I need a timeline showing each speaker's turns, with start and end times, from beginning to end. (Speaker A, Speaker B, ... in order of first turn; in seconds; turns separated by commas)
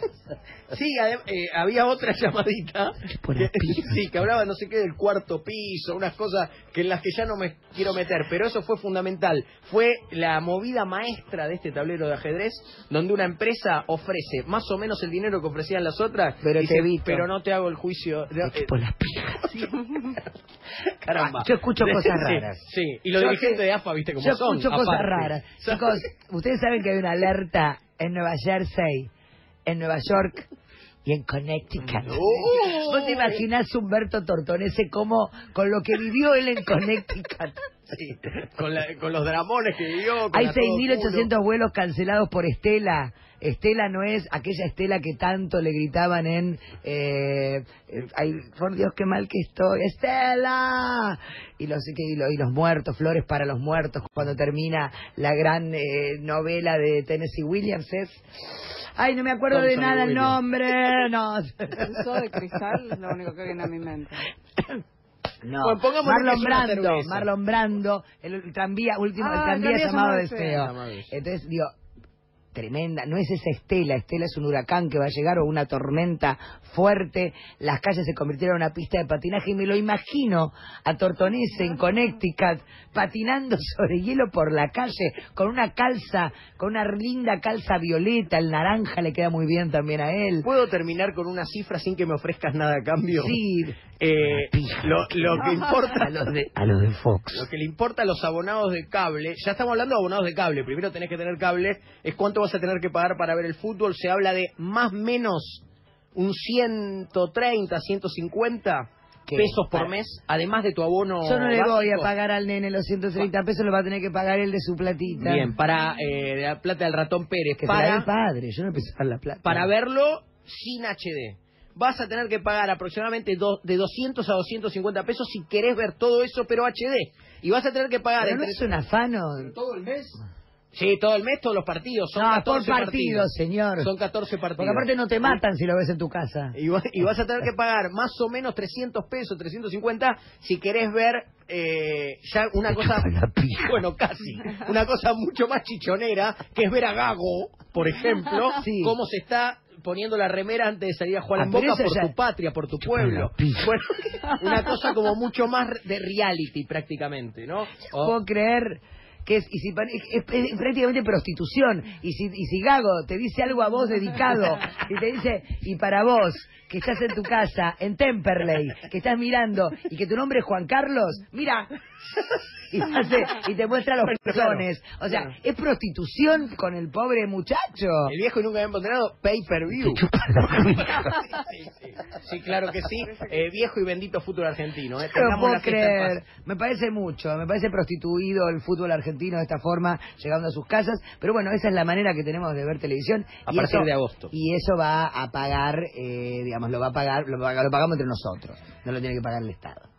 Speaker A: 0.7-18.7, Speaker B: 3.0-4.0, Speaker B: 16.4-17.3, Speaker B: 18.4-19.7, Speaker A: 19.5-19.9, Speaker A: 21.0-26.1, Speaker B: 21.1-22.6, Speaker B: 23.2-23.6, Speaker B: 24.2-29.1, Speaker B: 29.7-30.5, Speaker B: 31.1-37.7, Speaker A: 31.8-33.4, Speaker A: 37.9-41.3, Speaker B: 40.3-58.2, Speaker B: 59.0-62.0, Speaker A: 59.5-60.4, Speaker C: 61.8-64.3, Speaker B: 65.4-71.7, Speaker A: 65.6-67.3, Speaker A: 69.2-71.1, Speaker B: 72.5-90.5, Speaker A: 90.4-93.4, Speaker B: 93.2-93.8, Speaker A: 94.0-96.3, Speaker B: 94.4-97.5, Speaker A: 97.3-105.6, Speaker A: 106.2-112.1, Speaker B: 109.3-109.9, Speaker B: 111.2-115.5, Speaker A: 115.2-118.1, Speaker B: 117.6-119.7, Speaker A: 119.5-128.7, Speaker B: 128.2-129.5, Speaker A: 129.4-130.2, Speaker A: 130.7-135.4, Speaker B: 132.2-133.9, Speaker B: 134.6-136.6, Speaker A: 136.6-158.2, Speaker B: 142.7-143.8, Speaker B: 148.6-148.9, Speaker B: 151.4-152.1, Speaker B: 152.8-153.7, Speaker B: 158.0-171.7, Speaker B: 172.7-178.1, Speaker A: 174.0-175.3, Speaker A: 178.1-180.0, Speaker B: 179.8-181.2, Speaker A: 180.8-186.2, Speaker B: 185.1-199.9, Speaker A: 193.5-194.3